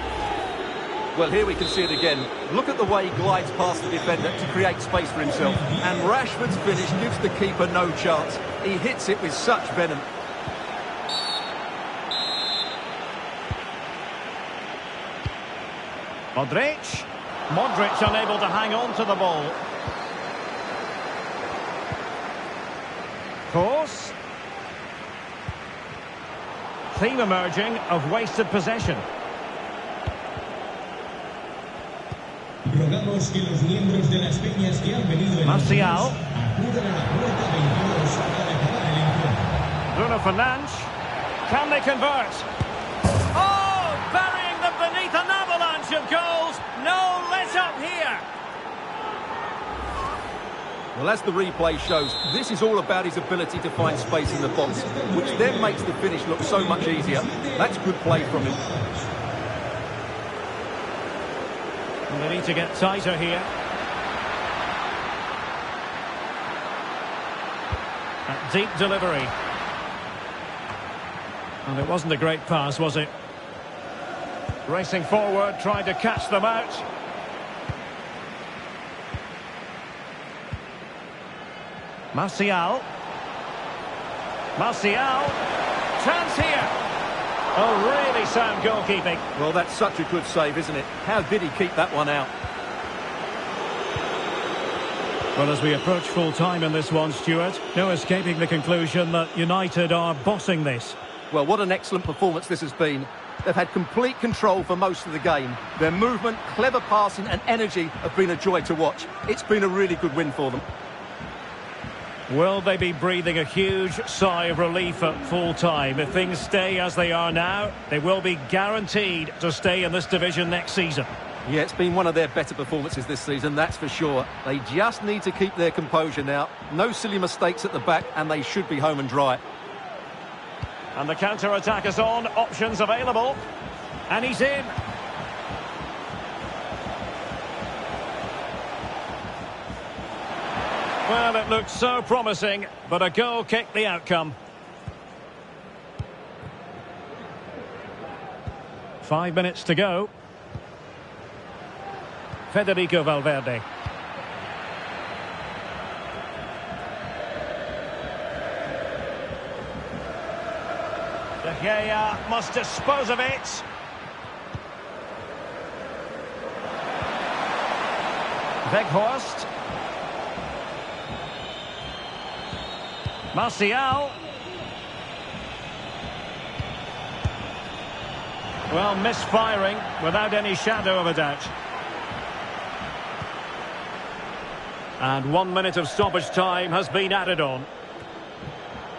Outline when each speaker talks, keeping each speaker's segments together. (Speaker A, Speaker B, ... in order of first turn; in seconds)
Speaker A: 1.1-10.1, 50.9-58.6, 89.4-92.3, 101.3-110.6, 121.5-129.4
Speaker B: 5.5-5.8, 32.6-39.6, 54.5-55.9, 56.4-58.8
Speaker C: 16.3-19.6, 23.5-24.1, 26.9-29.1, 35.4-36.2, 39.9-40.9, 41.5-42.5, 43.3-48.2, 62.1-63.5, 68.3-69.3, 71.6-73.1, 74.7-76.9, 82.1-82.9, 84.5-85.4, 86.0-86.7, 87.5-89.2, 95.3-101.0, 112.3-121.1, 130.9-133.4, 134.1-134.7, 141.1-144.4, 149.0-150.1, 152.5-153.6, 161.4-163.7, 168.6-169.5, 173.3-174.2, 178.7-181.5, 185.0-187.7